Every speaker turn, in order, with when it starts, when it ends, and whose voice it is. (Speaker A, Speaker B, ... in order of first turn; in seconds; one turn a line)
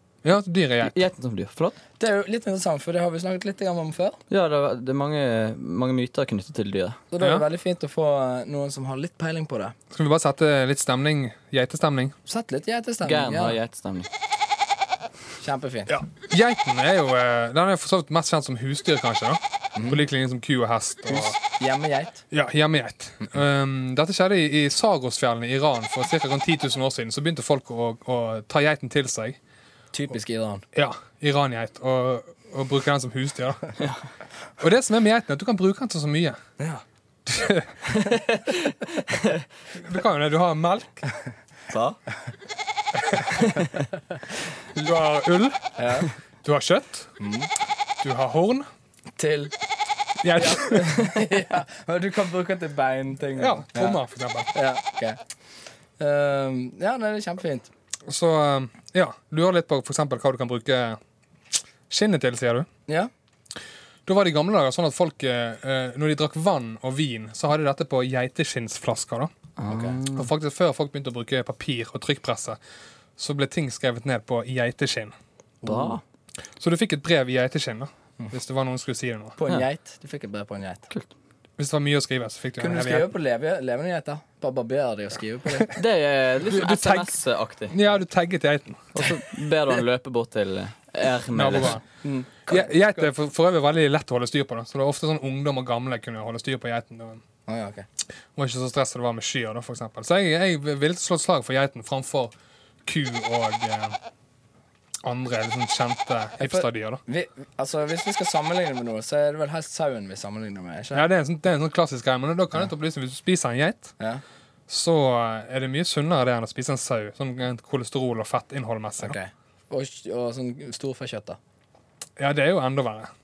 Speaker A: 0.2-0.9
Speaker B: 0.8-1.8
Speaker C: 2.0-4.2
Speaker B: 4.3-7.0
Speaker C: 7.1-9.7
Speaker A: 9.9-12.1
Speaker C: 12.3-13.6
Speaker B: 13.0-14.1
Speaker C: 15.4-15.9
Speaker A: 15.9-21.4
Speaker C: 19.8-20.0
Speaker C: 21.1-22.2
Speaker A: 22.3-29.4
Speaker C: 29.9-30.6
Speaker A: 30.7-33.7
Speaker A: 34.6-36.4
Speaker A: 37.3-38.0
Speaker A: 39.8-41.0
Speaker B: 41.7-42.0
Speaker A: 44.8-45.6
Speaker C: 45.8-46.1
Speaker A: 46.4-47.1
Speaker C: 47.2-47.5
Speaker A: 48.0-48.6
Speaker C: 49.2-49.5
Speaker A: 50.2-51.0
Speaker C: 50.4-54.0
Speaker A: 53.4-54.5
Speaker C: 54.5-55.2
Speaker C: 56.0-57.7
Speaker A: 58.1-61.0
Speaker A: 61.9-62.7
Speaker A: 64.0-69.3
Speaker B: 69.6-70.3
Speaker C: 69.7-70.0
Speaker A: 70.1-72.6
Speaker A: 73.2-75.1
Speaker C: 75.6-76.0
Speaker B: 75.6-76.0
Speaker A: 76.6-79.3
Speaker C: 79.4-80.9
Speaker A: 81.6-83.1
Speaker C: 82.6-85.7
Speaker B: 85.7-87.8
Speaker A: 86.4-87.1
Speaker A: 87.7-89.2
Speaker B: 88.9-91.8
Speaker A: 91.3-91.8
Speaker C: 92.0-93.1
Speaker A: 92.5-97.2
Speaker C: 97.5-97.8
Speaker A: 98.3-102.3
Speaker A: 102.8-104.0
Speaker A: 105.0-107.0
Speaker C: 106.4-111.0
Speaker A: 110.9-113.9
Speaker A: 114.7-119.2
Speaker C: 119.0-121.4
Speaker A: 122.2-123.1